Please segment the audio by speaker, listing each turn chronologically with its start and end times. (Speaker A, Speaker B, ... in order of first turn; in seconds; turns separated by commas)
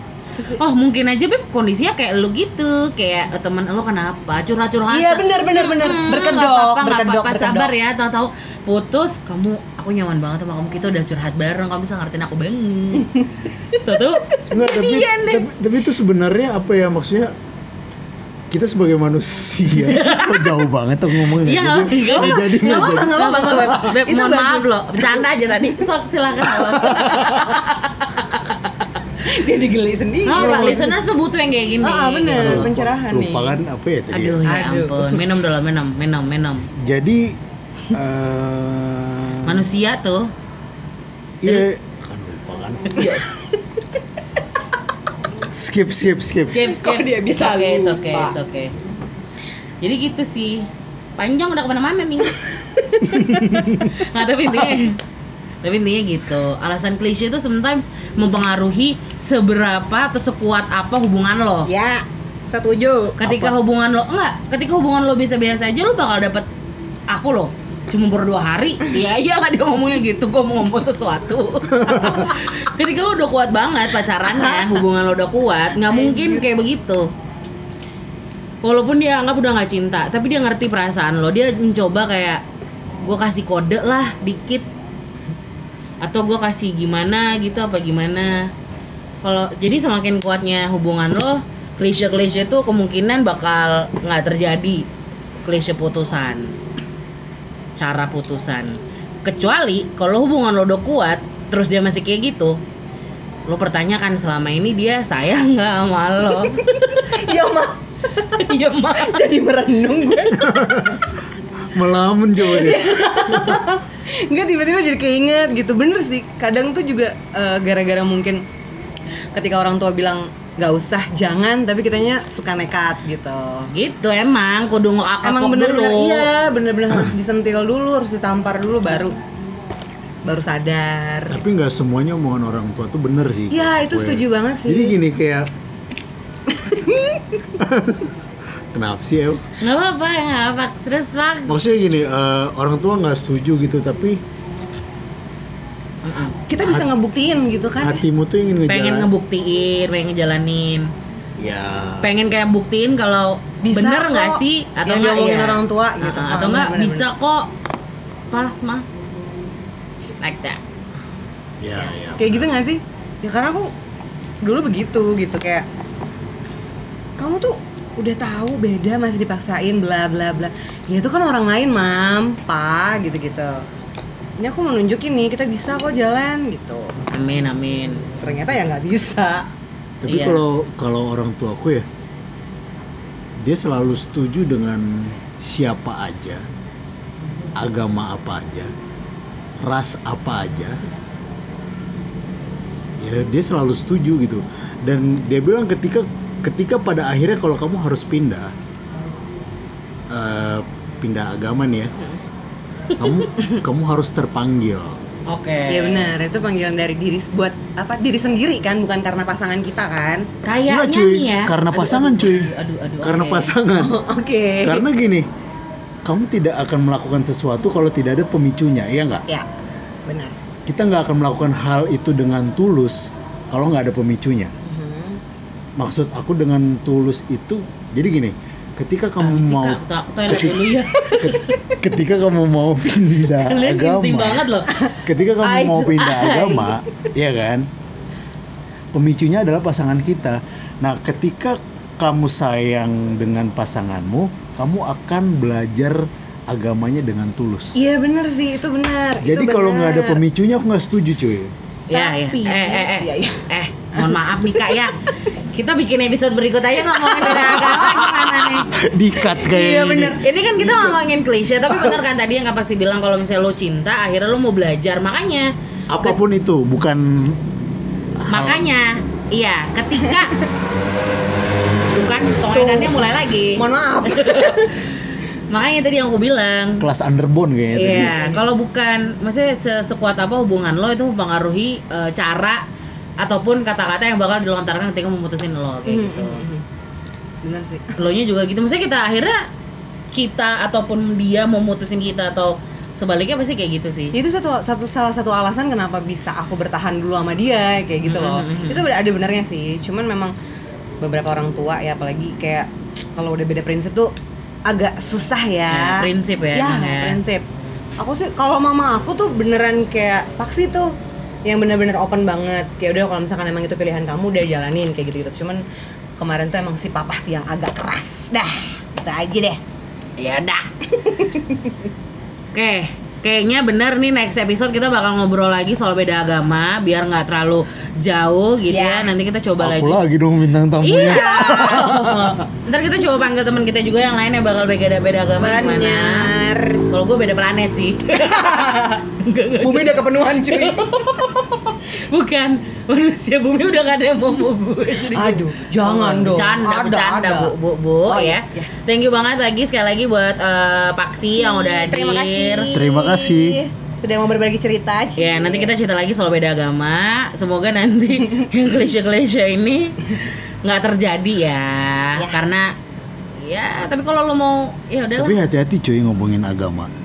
Speaker A: 0.5-15.5, Speaker B: 4.9-7.7, Speaker B: 13.0-13.3, Speaker B: 14.1-14.4, Speaker C: 14.5-17.3, Speaker C: 18.5-23.8, Speaker A: 19.9-20.6, Speaker A: 21.2-28.6, Speaker B: 22.0-25.3, Speaker C: 26.8-27.6, Speaker B: 29.2-30.9, Speaker A: 30.3-32.7, Speaker C: 30.3-30.9, Speaker B: 31.8-33.6, Speaker C: 32.4-34.4, Speaker A: 34.1-36.7, Speaker B: 34.5-35.2, Speaker C: 36.8-37.4, Speaker C: 37.9-39.6, Speaker A: 39.5-40.3, Speaker C: 41.4-43.0, Speaker A: 43.0-43.3, Speaker B: 43.0-43.5, Speaker C: 45.5-46.6, Speaker A: 46.4-48.7, Speaker B: 46.5-48.4, Speaker A: 49.8-52.3, Speaker B: 52.5-53.6, Speaker A: 53.2-55.0, Speaker C: 53.3-53.7, Speaker A: 55.6-61.7, Speaker B: 61.7-63.5, Speaker A: 63.2-66.5, Speaker A: 67.1-77.1, Speaker B: 74.3-74.7, Speaker B: 75.8-76.5, Speaker A: 78.6-82.4, Speaker A: 83.0-84.7, Speaker A: 86.0-88.5, Speaker A: 89.2-94.9, Speaker A: 95.4-96.6, Speaker A: 97.8-102.6, Speaker A: 103.5-107.1, Speaker B: 106.4-108.4, Speaker A: 108.4-109.3, Speaker B: 108.9-110.5, Speaker C: 110.4-111.0, Speaker C: 111.7-113.6, Speaker B: 112.4-118.4, Speaker B: 119.3-123.7, Speaker A: 123.7-126.3, Speaker B: 125.2-129.2, Speaker B: 130.3-131.4, Speaker C: 131.3-135.5, Speaker B: 133.5-135.0, Speaker B: 136.5-137.5, Speaker C: 137.6-138.1, Speaker C: 138.7-139.4, Speaker A: 139.6-141.6, Speaker C: 141.5-144.2, Speaker A: 146.0-146.4, Speaker B: 146.5-148.0, Speaker C: 147.8-149.1, Speaker A: 148.7-150.9, Speaker C: 151.4-152.1, Speaker A: 152.0-157.5, Speaker B: 153.6-157.1, Speaker A: 158.3-158.9, Speaker A: 160.2-160.6, Speaker C: 161.6-162.6, Speaker B: 162.2-163.7, Speaker B: 164.4-165.7, Speaker B: 167.2-173.7, Speaker B: 174.4-177.0, Speaker A: 177.1-178.1, Speaker B: 178.2-179.5, Speaker C: 180.0-181.9, Speaker A: 180.1-180.4, Speaker C: 183.4-186.4, Speaker C: 187.6-188.7, Speaker C: 189.6-190.8, Speaker C: 193.0-198.5, Speaker C: 200.1-201.9, Speaker C: 203.0-205.0, Speaker A: 205.3-206.1, Speaker B: 205.7-210.3, Speaker A: 210.4-213.5, Speaker C: 210.7-214.0, Speaker B: 213.8-214.9, Speaker C: 214.6-215.3, Speaker C: 216.1-219.2, Speaker B: 220.1-220.3, Speaker C: 220.7-224.5, Speaker B: 224.6-225.2, Speaker C: 225.8-230.6, Speaker A: 229.2-231.5, Speaker C: 231.2-237.7, Speaker A: 233.2-236.8, Speaker C: 238.9-247.8, Speaker B: 247.8-250.2, Speaker C: 249.2-251.5, Speaker A: 251.9-258.7, Speaker B: 251.9-254.8, Speaker C: 257.6-261.0, Speaker B: 259.4-260.2, Speaker A: 260.1-265.5, Speaker C: 265.9-267.4, Speaker C: 268.2-268.7, Speaker A: 268.3-270.4, Speaker A: 271.9-274.7, Speaker B: 272.5-274.8, Speaker A: 275.5-276.9, Speaker C: 276.8-278.1, Speaker A: 277.8-282.6, Speaker B: 278.0-278.4, Speaker A: 283.2-286.4, Speaker B: 285.9-286.6, Speaker B: 287.4-288.0, Speaker A: 288.0-289.5, Speaker A: 290.1-294.2, Speaker B: 294.1-300.3, Speaker A: 298.1-298.9, Speaker B: 301.0-304.1, Speaker B: 304.7-307.4, Speaker A: 305.7-307.2, Speaker B: 308.0-310.9, Speaker B: 311.4-315.6, Speaker B: 316.2-319.6, Speaker A: 320.2-320.7, Speaker B: 320.9-321.7, Speaker A: 322.5-330.0, Speaker B: 328.7-329.1, Speaker C: 329.6-332.4, Speaker A: 330.8-332.0, Speaker B: 331.4-332.4, Speaker A: 332.6-336.3, Speaker B: 335.4-336.8, Speaker A: 336.9-352.7, Speaker B: 338.1-339.0, Speaker B: 339.6-341.0, Speaker B: 345.1-347.6, Speaker B: 348.1-348.7, Speaker B: 351.3-355.7, Speaker C: 352.7-353.6, Speaker A: 355.2-362.7, Speaker A: 363.4-365.4, Speaker C: 365.2-366.9